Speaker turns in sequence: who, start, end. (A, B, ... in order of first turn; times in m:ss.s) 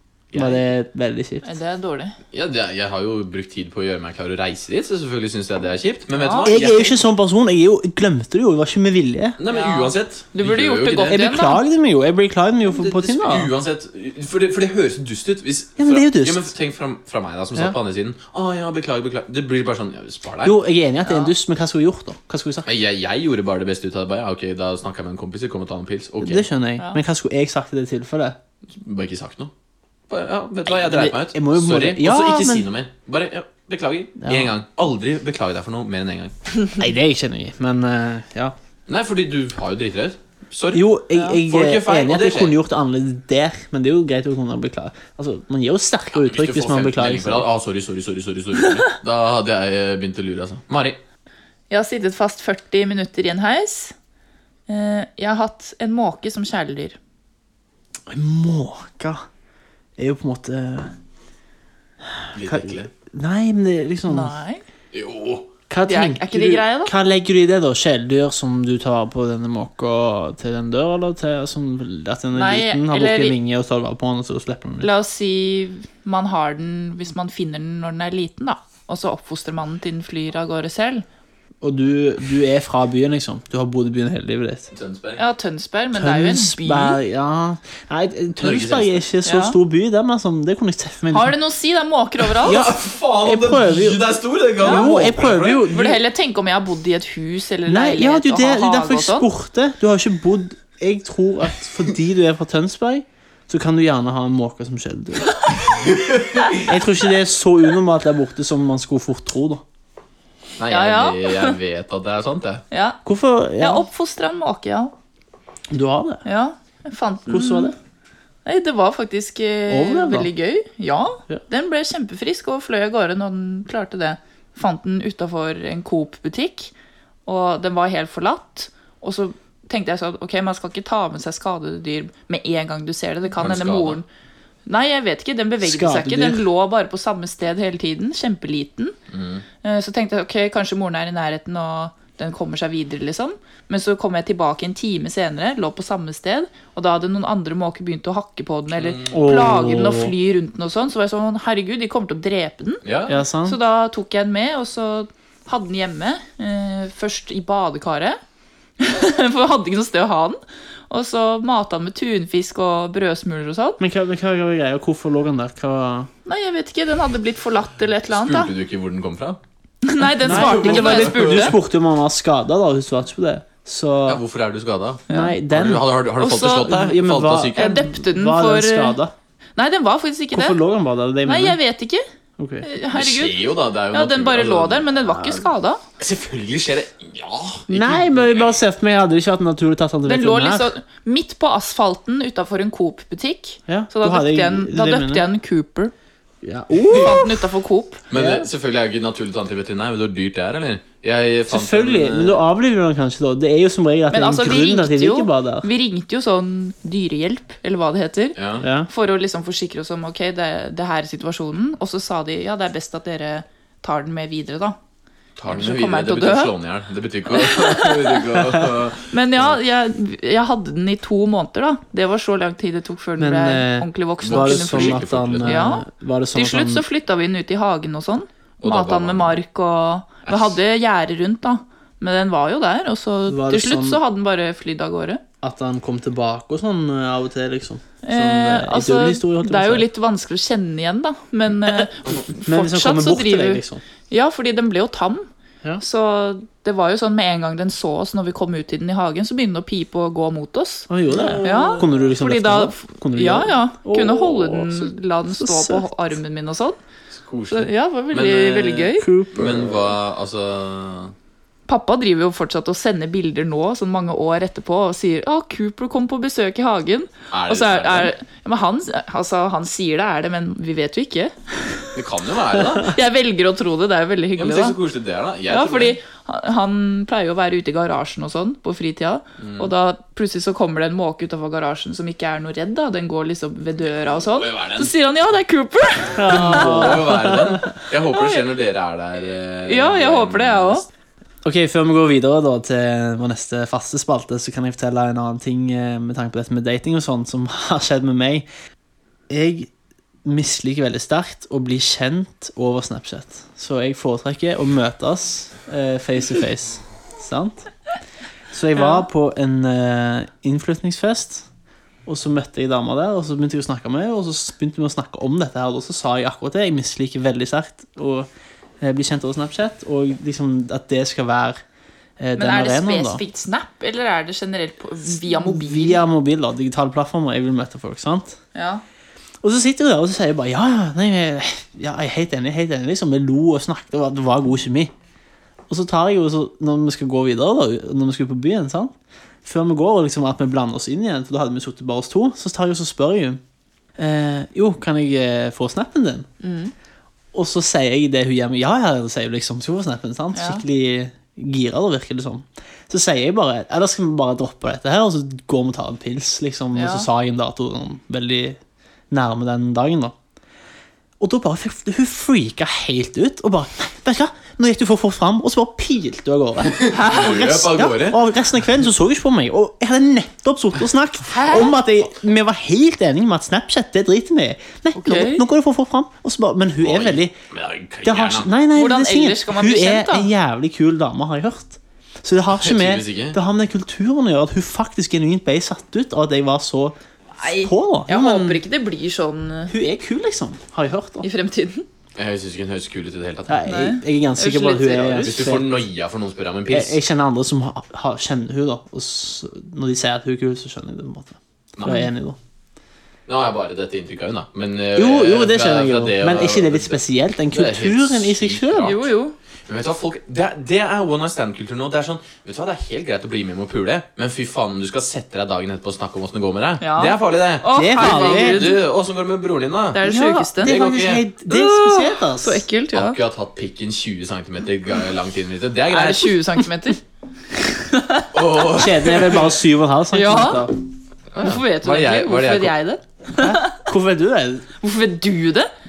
0:00.3-0:00.6 A
0:00.3-0:01.5 B
0:01.4-0:02.2 C
0:02.3-0:06.9 A
0:06.1-0:06.9 C
0:06.4-0:09.4 B
0:09.4-0:11.2 A
0:09.5-0:11.6 C
0:11.1-0:13.5 B
0:12.7-0:20.6 A
0:15.8-0:16.5 B
0:20.4-0:22.7 B
0:21.0-0:21.3 C
0:22.6-0:26.5 A
0:26.2-0:28.4 B
0:28.7-0:29.5 A
0:30.1-0:36.3 A
0:30.7-0:32.7 B
0:34.2-0:34.5 B
0:36.8-0:38.5 B
0:38.9-0:40.8 A
0:40.7-0:47.5 B
0:41.1-0:41.4 C
0:41.4-0:42.6 A
0:46.1-0:51.0 A
0:51.7-0:53.9 C
0:54.7-0:57.0 C
0:58.1-0:59.2 B
1:00.0-1:00.9 B
1:02.2-1:04.3 B
1:02.3-1:02.9 A
1:04.1-1:04.6 C
1:04.9-1:05.5 A
1:05.7-1:14.9 B
1:05.8-1:06.9 C
1:12.3-1:13.4 C
1:14.8-1:21.0 C
1:21.6-1:24.7 B
1:24.7-1:25.2 A
1:25.2-1:27.0 C
1:25.9-1:31.4 B
1:28.4-1:29.0 A
1:29.2-1:29.6 C
1:31.1-1:32.6 C
1:32.4-1:34.0 B
1:32.4-1:35.6 A
1:34.6-1:36.0 B
1:34.6-1:39.3 C
1:37.6-1:45.4 B
1:45.6-1:46.7 A
1:46.7-1:49.6 B
1:50.6-1:52.6 A
1:50.7-1:51.6 C
1:52.7-1:53.0 C
1:53.0-1:53.8 B
1:53.6-1:54.9 C
1:55.7-1:56.2 B
1:56.2-1:57.7 C
1:57.3-1:57.7 B
1:58.4-2:06.7 C
1:59.7-2:00.3 B
2:07.2-2:14.0 C
2:13.4-2:14.0 A
2:14.6-2:19.0 C
2:15.6-2:16.4 B
2:19.1-2:19.4 A
2:19.6-2:32.8 C
2:28.8-2:29.1 A
2:29.1-2:30.1 B
2:32.8-2:33.2 A
2:33.1-2:33.6 B
2:33.4-2:38.2 C
2:38.8-2:40.4 C
2:40.9-2:43.8 C
2:43.8-2:46.1 B
2:46.2-2:48.5 C
2:48.1-2:49.4 A
2:49.8-2:51.6 C
2:50.2-2:51.5 A
2:50.2-2:54.2 B
2:54.0-2:57.7 A
2:55.1-2:55.3 C
2:55.1-2:55.8 B
2:56.2-2:56.7 C
2:56.4-2:59.1 B
2:57.5-2:59.0 C
2:59.6-3:00.6 C
3:00.3-3:01.6 B
3:01.2-3:02.0 C
3:02.4-3:02.6 B
3:02.6-3:05.8 C
3:02.9-3:04.9 A
3:06.0-3:08.4 A
3:07.7-3:10.7 B
3:10.0-3:15.9 C
3:13.7-3:15.2 B
3:16.4-3:17.5 B
3:16.9-3:18.0 C
3:18.1-3:22.4 A
3:18.1-3:18.5 B
3:21.5-3:25.7 B
3:24.1-3:34.8 C
3:28.3-3:28.6 A
3:28.6-3:28.9 B
3:35.4-3:39.6 A
3:35.5-3:36.5 C
3:37.3-3:38.2 C
3:39.1-3:55.2 C
3:43.2-3:46.8 B
3:44.2-3:45.6 A
3:48.6-3:49.4 A
3:50.3-3:50.6 A
3:53.3-3:54.0 B
3:55.4-3:59.9 B
3:58.0-4:05.3 C
4:02.5-4:03.8 B
4:05.8-4:16.8 C
4:10.9-4:15.9 B
4:11.1-4:11.4 A
4:17.1-4:21.1 A
4:17.5-4:19.1 C
4:19.0-4:19.9 B
4:21.7-4:31.9 C
4:27.3-4:28.1 A
4:31.9-4:32.9 A
4:32.7-4:34.8 C
4:34.4-4:36.0 A
4:35.5-4:47.1 C
4:39.4-4:39.7 A
4:44.4-4:44.9 A
4:46.2-4:47.6 B
4:46.3-4:50.8 A
4:48.1-4:48.4 C
4:49.7-4:50.8 C
4:51.4-4:58.4 B
4:59.3-4:59.7 B
5:00.2-5:07.7 B
5:08.5-5:11.5 B
5:08.8-5:09.0 C
5:12.0-5:18.3 B
5:18.8-5:21.6 B
5:22.2-5:23.2 B
5:22.4-5:26.0 C
5:25.3-5:28.4 B
5:28.5-5:28.8 C
5:29.4-5:34.9 B
5:35.7-5:43.4 B
5:44.0-5:46.3 B
5:46.4-5:46.7 C
5:47.3-5:58.6 B
5:50.3-5:50.6 C
5:56.7-5:57.1 C
5:59.1-6:00.1 B
6:01.2-6:17.3 B
6:06.7-6:08.2 A
6:06.9-6:07.4 C
6:11.3-6:11.8 C
6:14.9-6:15.4 C
6:16.8-6:18.5 A
6:18.0-6:28.6 B
6:18.7-6:20.3 C
6:22.6-6:23.4 A
6:27.4-6:29.7 C
6:29.7-6:31.3 B
6:31.2-6:31.8 C
6:32.2-6:33.7 A
6:33.5-6:35.8 B
6:33.6-6:35.5 C
6:35.2-6:37.0 A
6:36.7-6:42.4 B
6:41.8-6:42.0 A
6:41.8-6:42.1 C
6:43.3-6:49.0 A
6:44.9-6:49.0 B
6:48.8-6:49.3 C
6:49.7-7:00.0 A
6:56.8-6:58.8 C
6:57.7-6:58.7 B
6:59.9-7:00.7 C
7:00.0-7:02.6 B
7:00.6-7:01.2 A
7:01.5-7:03.2 C
7:02.9-7:06.3 A
7:05.9-7:07.0 C
7:07.5-7:08.3 C
7:08.3-7:09.6 A
7:08.8-7:10.7 B
7:10.1-7:10.7 C
7:11.4-7:13.8 C
7:11.4-7:12.8 A
7:13.3-7:14.7 B
7:14.8-7:15.7 C